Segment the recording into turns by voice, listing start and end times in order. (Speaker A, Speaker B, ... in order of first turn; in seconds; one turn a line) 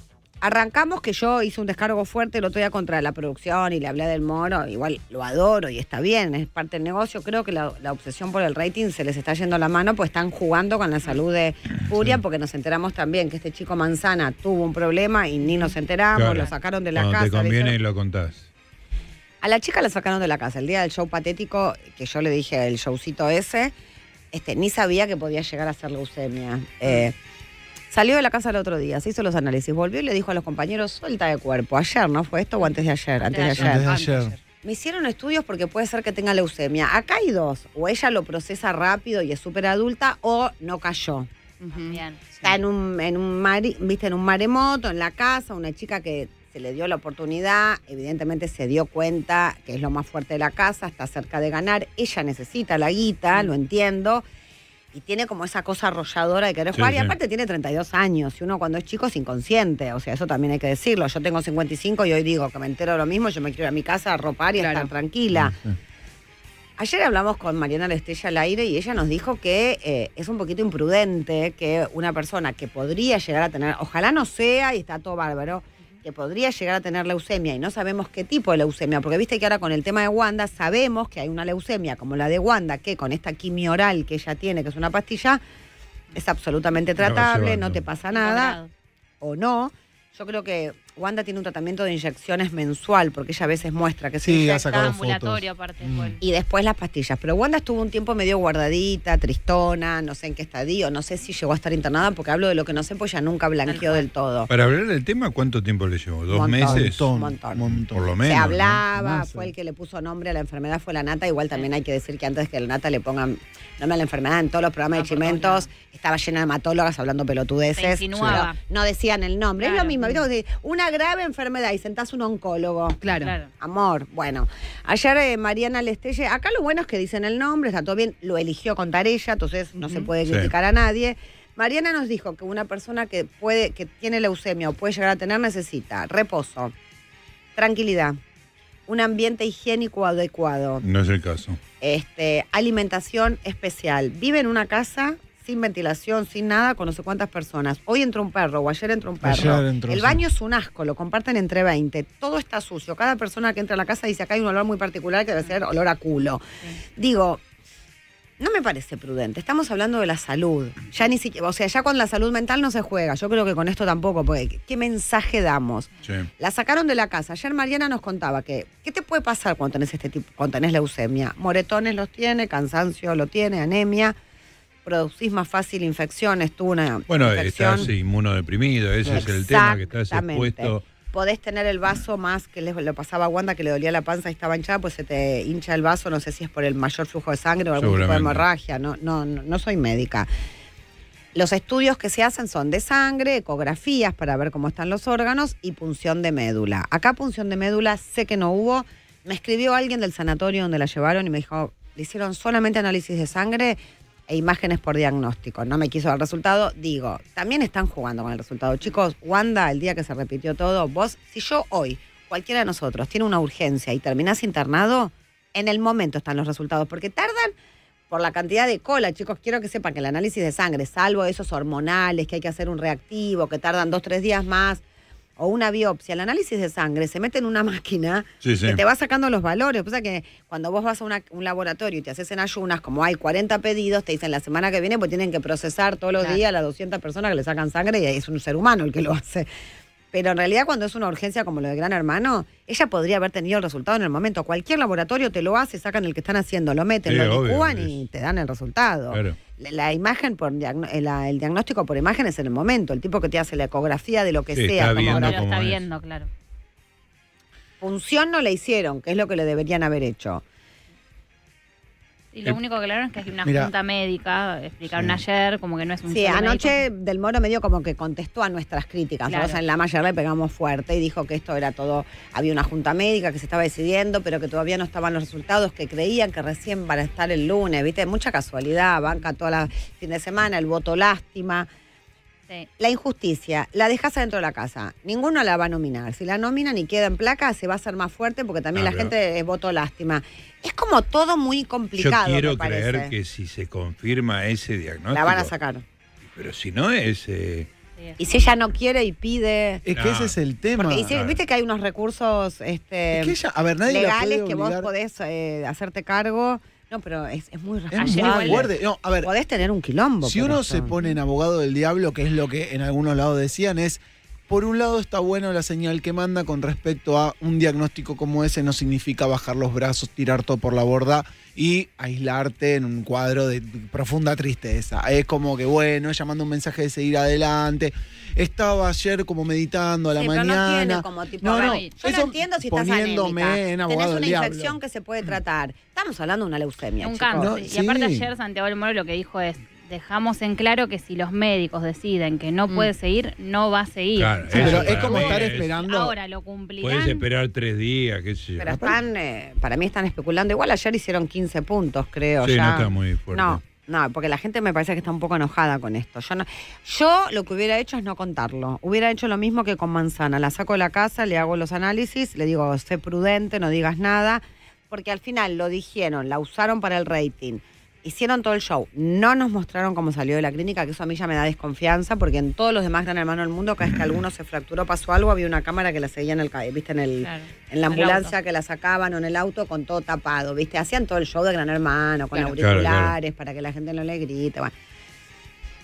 Speaker A: 0.4-17.8
Speaker B: 16.1-18.5
Speaker A: 19.4-23.7
Speaker A: 24.3-27.1
Speaker A: 27.9-33.9
Speaker C: 33.2-33.8
Speaker D: 33.5-34.3
Speaker E: 33.8-34.4
Speaker A: 34.6-41.3
Speaker E: 41.6-42.0
Speaker C: 41.7-42.5
Speaker A: 42.4-54.2
Speaker A: 54.9-65.5
Speaker B: 56.7-57.1
Speaker E: 64.5-64.9
Speaker D: 65.3-65.8
Speaker A: 66.8-85.4
Speaker A: 86.1-88.6
Speaker B: 87.0-87.8
Speaker C: 88.0-88.7
Speaker A: 89.2-94.9
Speaker D: 94.2-96.2
Speaker C: 94.7-96.2
Speaker A: 96.2-104.5
Speaker C: 103.7-104.1
Speaker B: 104.5-108.8
Speaker A: 106.3-107.6
Speaker D: 106.6-109.5
Speaker A: 108.2-123.0
Speaker C: 114.9-115.7
Speaker C: 117.8-118.6
Speaker C: 119.6-120.2
Speaker E: 123.0-123.4
Speaker C: 123.2-123.5
Speaker A: 123.6-136.7
Speaker E: 129.8-130.1
Speaker B: 130.2-130.5
Speaker A: 137.6-138.2
Speaker A: 138.9-140.8
Speaker B: 140.8-141.6
Speaker A: 141.8-156.4
Speaker D: 149.2-150.2
Speaker A: 157.0-157.4
Speaker A: 158.4-174.2
Speaker A: 174.8-177.9
Speaker B: 177.1-180.8
Speaker D: 179.0-179.3
Speaker A: 179.1-190.3
Speaker B: 187.8-188.5
Speaker A: 191.3-217.6
Speaker A: 218.1-224.8
Speaker A: 225.4-239.5
Speaker B: 228.4-228.8
Speaker A: 240.1-255.4
Speaker B: 247.1-248.1
Speaker B: 249.1-249.4
Speaker B: 254.5-255.9
Speaker C: 255.0-256.3
Speaker A: 257.8-260.4
Speaker C: 262.3-266.8
Speaker D: 263.4-263.7
Speaker D: 264.9-265.2
Speaker A: 266.1-281.7
Speaker C: 269.3-269.6
Speaker A: 282.8-293.1
Speaker B: 288.7-289.1
Speaker B: 292.0-295.5
Speaker A: 295.1-295.8
Speaker B: 296.2-297.7
Speaker C: 298.0-298.5
Speaker A: 298.2-299.9
Speaker D: 299.9-301.1
Speaker B: 299.9-300.4
Speaker A: 300.8-310.9
Speaker B: 300.9-301.4
Speaker D: 303.1-304.9
Speaker D: 307.9-309.3
Speaker C: 308.0-308.6
Speaker D: 310.2-334.8
Speaker A: 330.1-337.5
Speaker C: 331.6-331.9
Speaker C: 337.0-347.3
Speaker D: 337.4-338.3
Speaker B: 344.2-345.7
Speaker A: 344.5-345.3
Speaker D: 344.5-346.1
Speaker B: 346.8-348.7
Speaker A: 348.6-384.7
Speaker D: 348.6-349.0
Speaker B: 352.4-353.6
Speaker C: 377.2-378.3
Speaker B: 382.6-383.2